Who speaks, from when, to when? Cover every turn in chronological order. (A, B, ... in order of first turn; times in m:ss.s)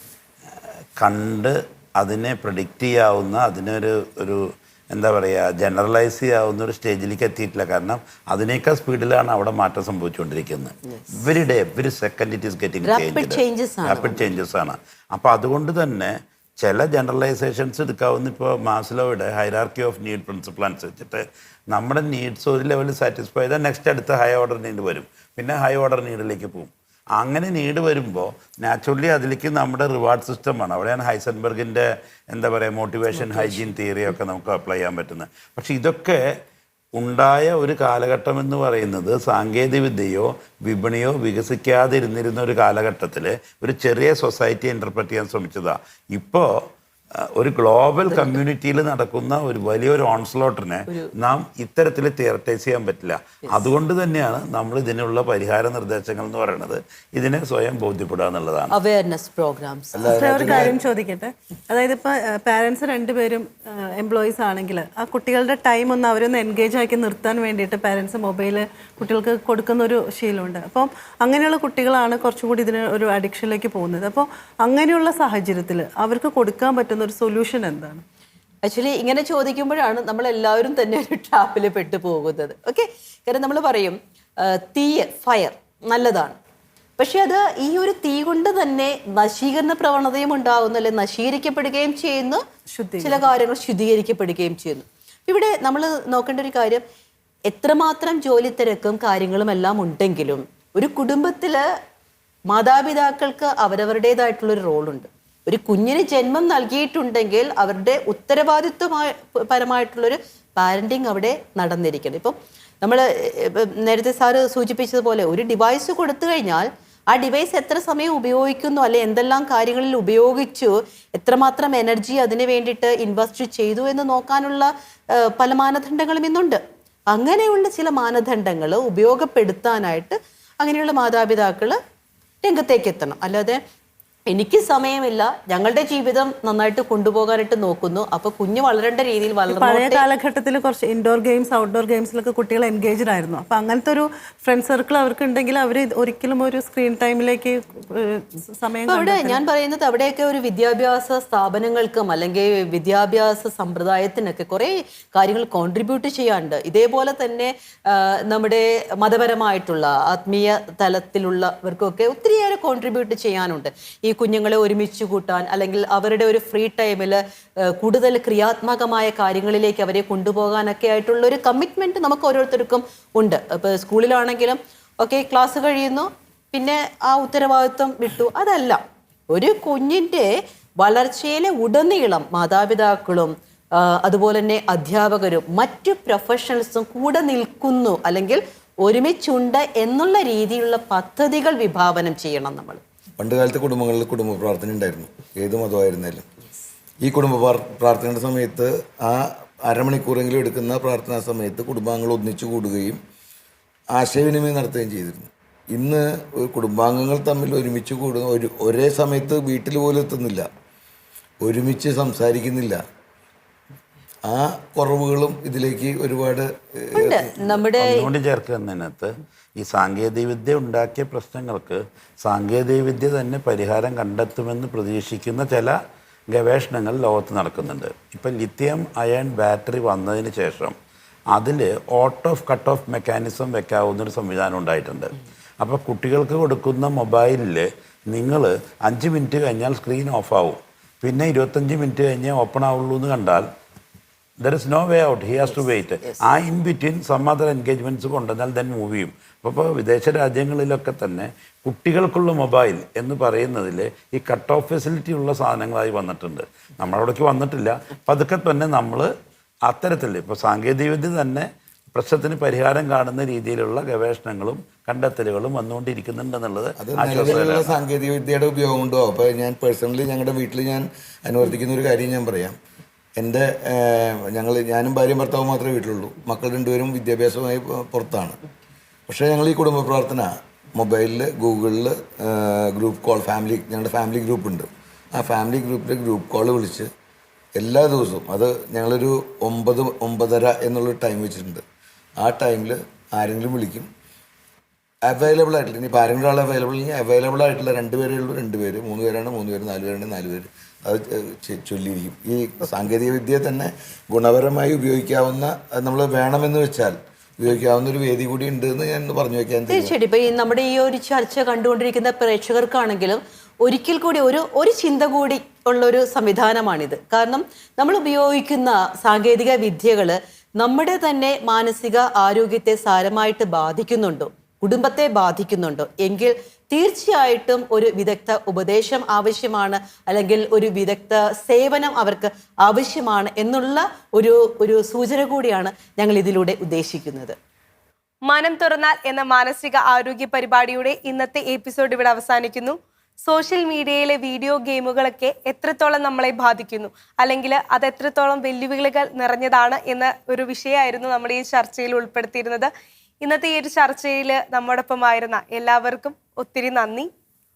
0:01.0-0:36.2 A
0:12.8-0:14.3 B
0:33.1-0:33.7 B
0:36.9-0:58.7 A
0:48.1-0:48.4 B
0:58.7-1:00.6 B
0:59.9-1:00.8 C
1:00.1-1:18.0 D
1:18.6-1:26.4 B
1:27.0-1:32.4 B
1:32.7-1:33.3 D
1:33.0-1:36.8 B
1:37.5-1:41.6 B
1:42.5-2:11.8 B
2:12.4-2:13.6 B
2:14.3-2:20.0 B
2:19.5-2:29.4 D
2:28.9-2:58.8 B
2:59.3-3:00.3 B
3:00.8-3:12.8 B
3:13.2-3:16.2 C
3:17.0-3:23.0 C
3:23.9-3:30.5 C
3:31.4-3:32.8 C
3:34.2-3:37.5 C
3:36.9-3:38.1 B
3:37.8-3:45.8 A
3:46.3-3:50.7 A
3:51.3-4:03.5 A
4:04.4-4:19.1 A
4:19.6-4:27.8 A
4:26.8-4:32.6 C
4:33.2-4:38.4 C
4:39.1-4:46.9 C
4:47.6-4:51.6 C
4:52.2-4:53.9 C
4:55.0-5:09.9 C
5:09.7-5:37.3 B
5:38.3-5:52.7 E
5:53.2-5:57.1 E